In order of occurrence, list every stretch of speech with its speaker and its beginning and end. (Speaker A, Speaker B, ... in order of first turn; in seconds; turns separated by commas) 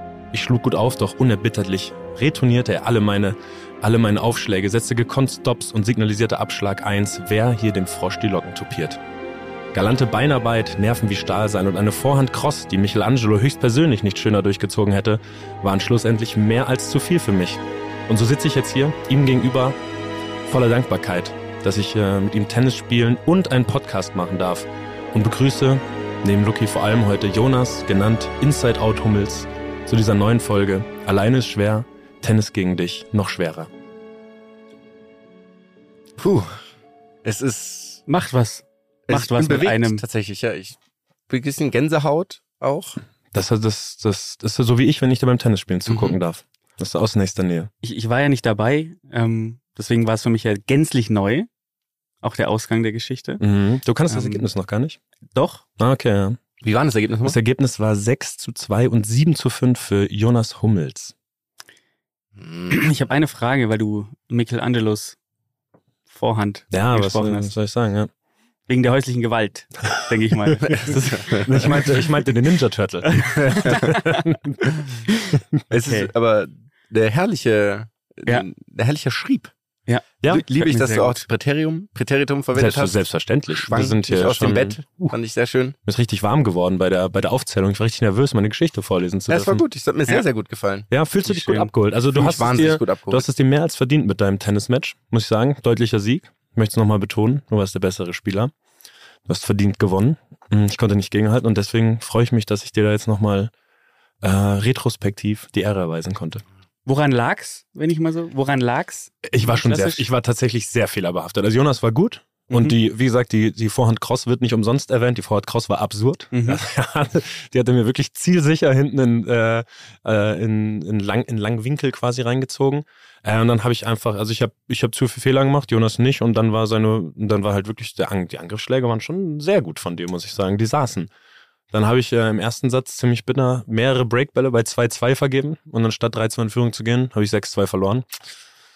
Speaker A: 0.3-9.0, Speaker A: 9.7-19.8, Speaker A: 20.4-33.7, Speaker B: 36.2-36.6, Speaker B: 37.2-38.0, Speaker C: 38.1-40.0, Speaker B: 39.1-40.8, Speaker B: 41.3-43.0, Speaker A: 43.3-47.7, Speaker B: 45.9-46.2, Speaker C: 47.8-51.5, Speaker C: 52.2-53.4, Speaker A: 53.4-55.0, Speaker C: 54.1-54.4, Speaker C: 55.3-55.6, Speaker A: 55.8-56.4, Speaker B: 56.6-57.4, Speaker A: 57.2-61.1, Speaker B: 62.4-62.8, Speaker C: 62.7-65.2, Speaker C: 66.1-67.5, Speaker A: 66.7-68.1, Speaker C: 68.7-71.7, Speaker B: 70.6-71.6, Speaker A: 70.7-74.6, Speaker C: 73.1-74.2, Speaker B: 75.7-79.5, Speaker C: 75.8-76.1, Speaker C: 79.9-81.2, Speaker B: 80.2-83.0, Speaker A: 82.5-85.1, Speaker B: 83.5-85.8, Speaker A: 85.8-89.6, Speaker B: 89.3-93.3, Speaker A: 90.9-98.5, Speaker A: 99.2-103.5, Speaker A: 104.2-106.4, Speaker C: 106.8-110.0, Speaker A: 109.2-131.1, Speaker C: 116.3-116.6, Speaker A: 131.7-138.1